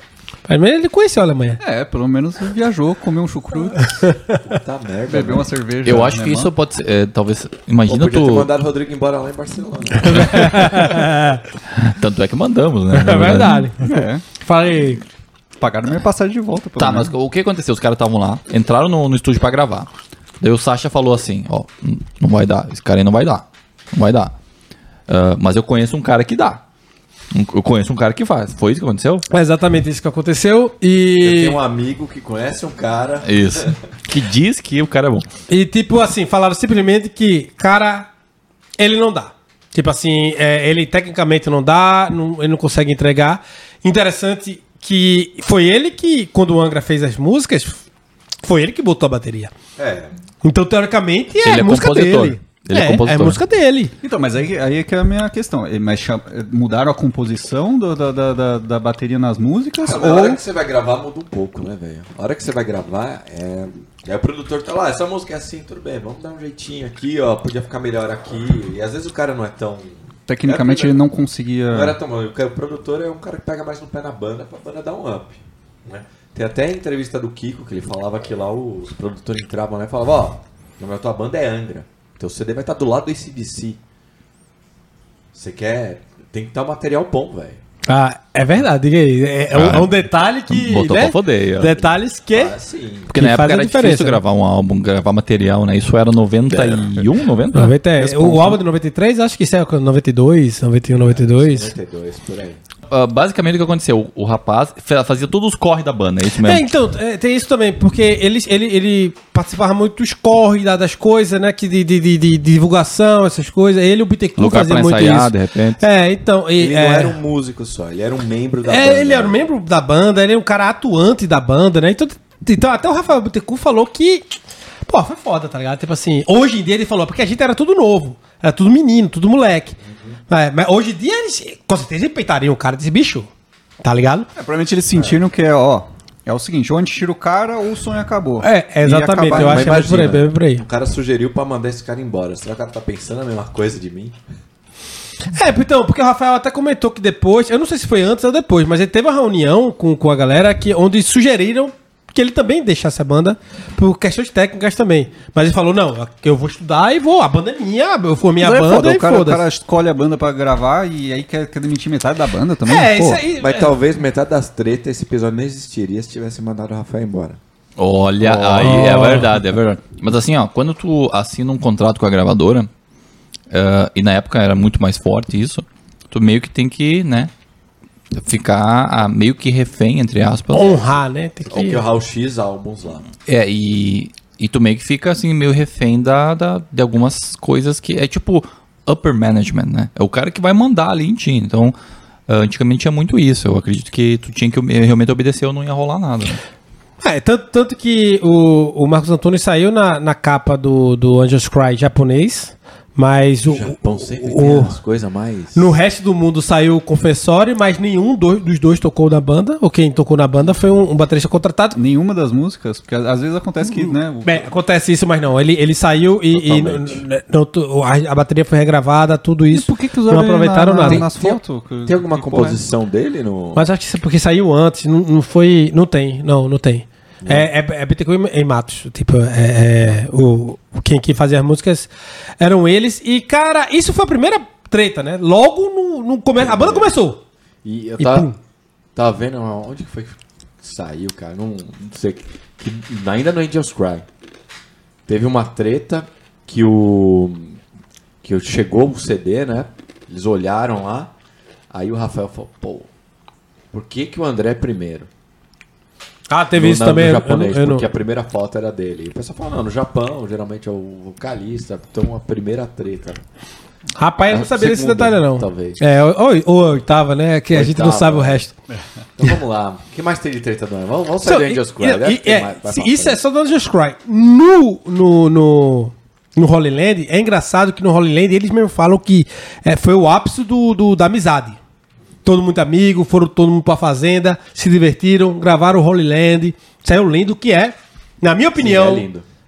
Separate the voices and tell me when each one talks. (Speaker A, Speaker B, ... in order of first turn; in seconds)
Speaker A: 0.5-1.6, 10.1-11.4, 12.9-15.0, 29.3-31.6, 35.5-38.1, 38.8-47.8, 48.4-49.5, 50.4-53.9, 87.8-92.5, 93.1-94.2, 97.5-101.7, 106.4-117.2, 118.7-124.3, 124.9-129.8, 130.3-133.3, 133.8-134.3, 138.4-140.7, 145.3-159.4, 162.7-163.7, 168.6-169.3, 180.5-181.8, 197.0-204.8, 205.5-211.8, 214.2-221.4, 223.6-237.2, 238.0-238.4, 256.3-257.9, 264.0-268.5, 271.2-281.6, 282.2-289.1
Speaker B: 1.6-4.0, 5.1-6.5, 13.8-14.2, 15.6-17.2, 54.0-60.4, 70.3-72.0, 134.4-139.8, 158.4-163.2, 168.2-168.7, 211.7-214.5, 219.5-222.6
Speaker C: 4.3-5.5, 7.9-10.6, 31.2-33.8, 49.8-50.2, 59.8-71.0, 71.7-83.8, 85.3-87.6, 92.3-93.1, 101.0-102.6, 116.6-119.5, 139.3-144.2, 163.4-167.4, 168.4-168.7, 181.4-183.1, 203.4-205.8, 216.3-217.0, 220.8-221.1, 221.8-223.7, 227.2-227.5, 236.4-237.0, 237.6-238.3, 238.9-244.1, 245.1-247.6, 248.2-251.1, 251.7-252.9, 253.7-255.1, 256.5-263.2, 264.3-265.8, 267.5-268.4, 269.2-273.2, 288.6-289.2
Speaker D: 5.8-8.5, 10.2-11.0, 11.7-13.7, 16.8-19.9, 20.4-24.3, 25.1-26.6, 27.3-29.3, 33.2-35.3, 51.4-53.4, 89.5-89.9, 90.5-91.9, 93.1-98.6, 102.9-106.7, 114.4-115.8, 167.8-172.7, 173.5-177.3, 178.2-180.8, 183.3-191.8, 192.3-196.4